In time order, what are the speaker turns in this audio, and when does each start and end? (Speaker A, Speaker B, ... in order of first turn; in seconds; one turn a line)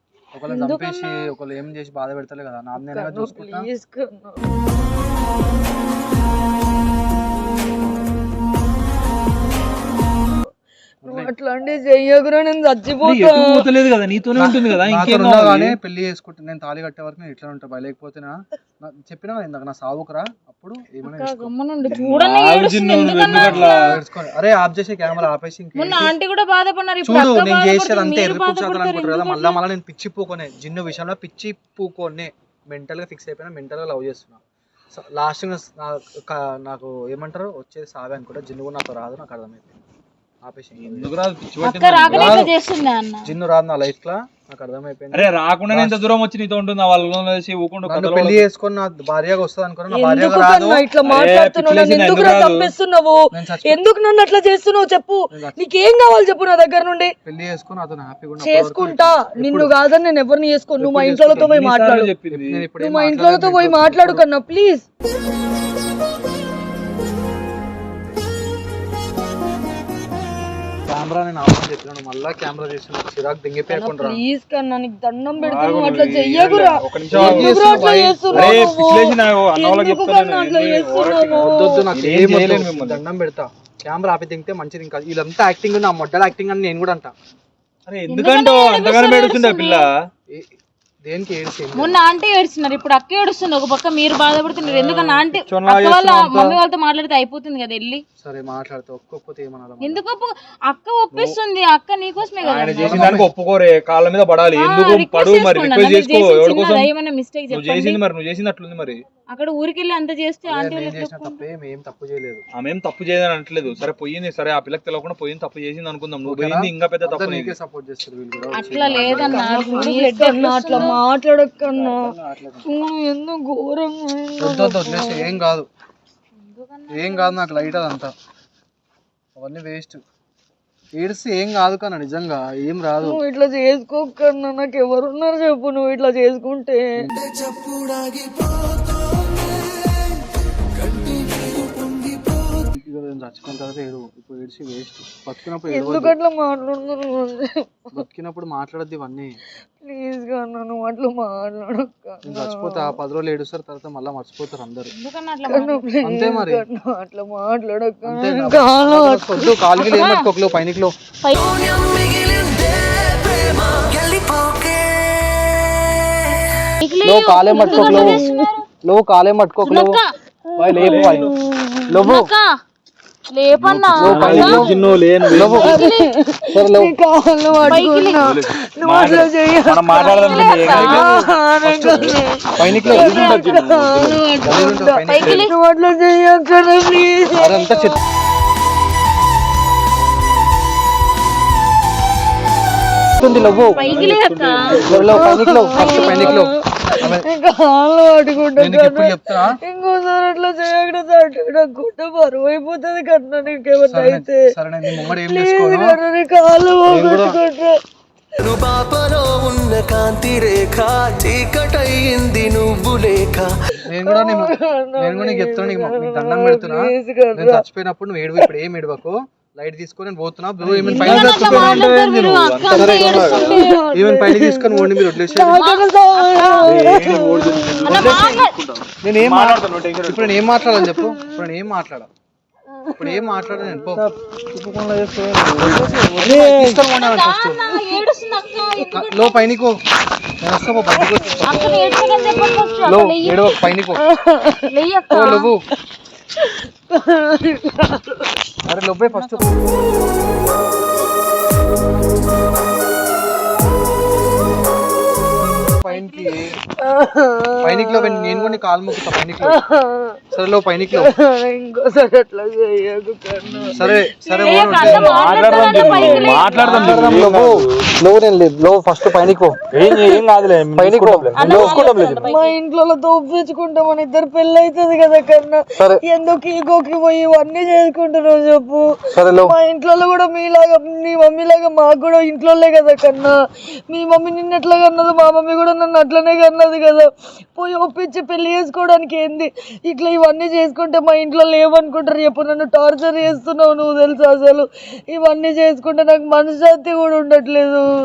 Speaker A: 0.3-3.6
Speaker B: 0.5-0.8
Speaker C: 0.7-1.0
Speaker B: 2.8-4.5
Speaker A: 11.1-11.3
Speaker B: 11.1-13.7
Speaker D: 13.0-15.8
Speaker A: 14.4-21.5
Speaker C: 21.0-23.9
Speaker D: 21.9-24.0
Speaker A: 23.4-26.1
Speaker C: 25.8-29.6
Speaker A: 27.0-34.4
Speaker A: 34.9-39.8
Speaker A: 40.4-41.1
Speaker D: 40.8-42.5
Speaker C: 41.6-43.3
Speaker A: 42.1-42.5
Speaker A: 43.2-46.0
Speaker D: 45.1-48.5
Speaker A: 47.8-50.8
Speaker B: 49.9-57.1
Speaker D: 51.0-52.7
Speaker A: 53.3-53.8
Speaker A: 55.3-55.6
Speaker A: 57.2-59.7
Speaker B: 58.4-62.1
Speaker A: 60.8-61.3
Speaker D: 60.9-62.7
Speaker A: 62.3-64.2
Speaker B: 62.8-64.8
Speaker A: 70.8-74.2
Speaker B: 73.7-81.9
Speaker D: 75.4-83.0
Speaker A: 77.1-78.6
Speaker A: 81.3-87.1
Speaker D: 87.8-89.9
Speaker C: 88.1-89.8
Speaker A: 91.0-92.0
Speaker C: 91.7-98.0
Speaker D: 94.6-96.6
Speaker A: 98.2-100.0
Speaker C: 99.8-103.2
Speaker D: 101.1-101.4
Speaker D: 102.4-106.9
Speaker A: 102.8-103.3
Speaker C: 104.4-108.0
Speaker D: 107.5-109.0
Speaker C: 109.3-111.4
Speaker A: 110.5-112.4
Speaker D: 112.5-117.6
Speaker A: 116.2-119.8
Speaker C: 118.5-121.0
Speaker B: 118.9-122.0
Speaker A: 121.7-122.7
Speaker B: 122.7-125.3
Speaker A: 124.4-125.7
Speaker C: 126.4-127.8
Speaker A: 126.9-128.1
Speaker A: 129.3-130.0
Speaker A: 130.9-133.2
Speaker B: 133.0-137.1
Speaker E: 137.1-140.2
Speaker E: 140.8-142.6
Speaker A: 142.7-146.1
Speaker B: 145.7-148.0
Speaker A: 147.9-149.4
Speaker B: 149.8-153.0
Speaker A: 152.2-154.9
Speaker C: 154.9-155.9
Speaker B: 155.5-159.8
Speaker A: 156.0-156.6
Speaker A: 158.0-160.9
Speaker C: 159.8-160.3
Speaker C: 161.2-161.5
Speaker E: 161.4-166.2
Speaker C: 166.8-168.6
Speaker A: 167.0-168.2
Speaker B: 167.4-168.5
Speaker A: 168.8-169.9
Speaker C: 169.6-170.1
Speaker B: 170.5-172.1
Speaker A: 170.6-171.3
Speaker D: 170.6-171.3
Speaker A: 171.9-172.3
Speaker C: 172.0-172.5
Speaker C: 173.3-174.7
Speaker D: 173.5-175.8
Speaker A: 173.9-174.8
Speaker B: 174.3-174.7
Speaker A: 175.3-175.7
Speaker B: 175.4-187.8
Speaker C: 175.5-176.1
Speaker A: 176.5-176.9
Speaker D: 177.5-181.1
Speaker C: 177.7-178.3
Speaker C: 179.9-181.1
Speaker A: 180.6-183.3
Speaker D: 182.6-184.7
Speaker A: 184.4-185.5
Speaker C: 185.1-185.5
Speaker A: 187.3-187.9
Speaker A: 193.2-193.9
Speaker D: 193.2-195.3
Speaker C: 193.7-194.8
Speaker A: 194.8-197.2
Speaker B: 195.1-207.8
Speaker C: 195.8-196.3
Speaker A: 198.6-199.6
Speaker A: 203.9-206.0
Speaker A: 206.9-207.4
Speaker E: 208.4-213.5
Speaker A: 213.8-216.8
Speaker B: 214.0-217.6
Speaker A: 217.3-221.9
Speaker D: 220.6-223.6
Speaker B: 220.8-221.3
Speaker C: 221.0-223.8
Speaker A: 222.7-223.3
Speaker B: 222.8-227.9
Speaker A: 223.9-225.7
Speaker C: 225.6-226.8
Speaker D: 226.6-230.5
Speaker C: 227.8-228.6
Speaker A: 227.9-228.4
Speaker A: 229.0-232.1
Speaker B: 230.6-231.2
Speaker B: 232.7-233.7
Speaker A: 233.0-234.0
Speaker D: 233.7-236.8
Speaker A: 235.6-237.6
Speaker C: 236.9-239.6
Speaker A: 238.9-239.8
Speaker A: 240.4-241.7
Speaker B: 240.9-242.9
Speaker C: 241.4-243.7
Speaker A: 242.8-244.0
Speaker B: 243.9-244.7
Speaker C: 244.7-245.5
Speaker A: 245.1-245.7
Speaker B: 246.4-248.3
Speaker A: 248.6-249.4
Speaker C: 249.1-249.6
Speaker A: 255.8-256.5
Speaker C: 255.9-256.4
Speaker B: 256.6-260.2
Speaker A: 257.6-259.6
Speaker A: 260.3-261.1
Speaker B: 260.9-265.8
Speaker D: 263.6-263.9
Speaker A: 263.7-269.6
Speaker C: 264.4-267.1
Speaker D: 264.8-267.9
Speaker D: 269.7-272.3
Speaker B: 269.8-270.1
Speaker A: 270.8-272.3
Speaker C: 271.4-272.6
Speaker B: 272.3-283.3
Speaker A: 279.1-279.6
Speaker B: 283.9-297.8